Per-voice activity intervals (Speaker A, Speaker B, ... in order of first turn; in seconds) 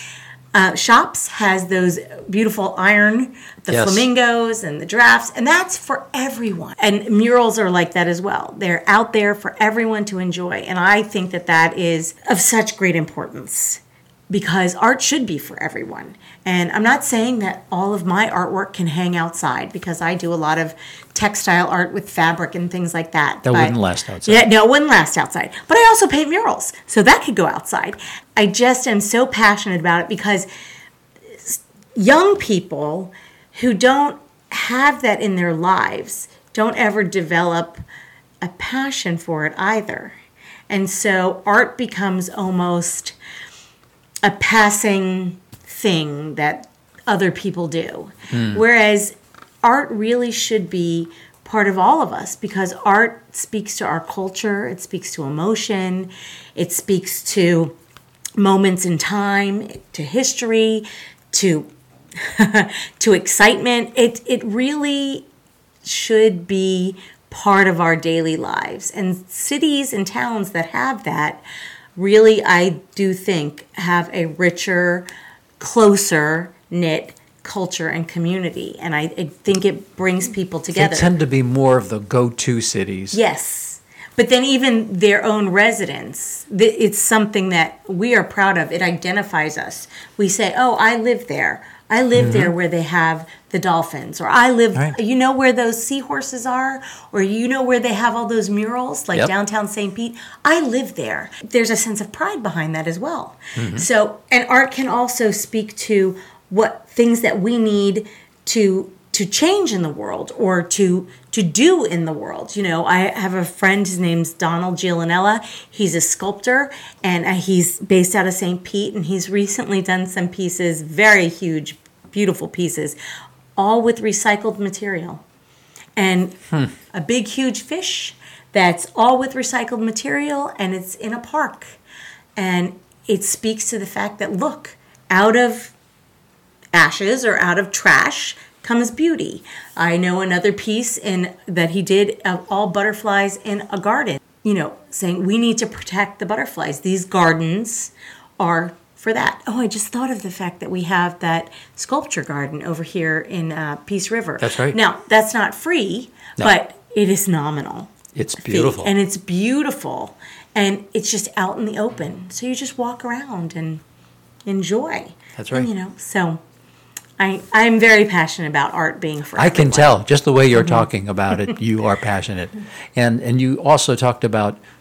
Speaker A: 0.5-30.5, 31.3-37.8, 38.4-40.1, 40.7-43.1, 44.2-57.7, 58.4-65.3, 65.8-71.4, 72.0-75.1, 75.6-81.1, 83.1-123.0, 123.5-125.2, 126.0-126.4, 126.9-131.8, 132.3-135.7, 136.7-163.8, 164.4-166.4, 167.2-169.9, 170.6-170.8
Speaker B: 3.7-4.0, 23.4-24.4, 48.3-48.6, 80.7-83.2, 92.2-92.5, 103.5-103.9, 154.4-154.8, 158.1-158.9, 165.3-165.7, 169.4-174.6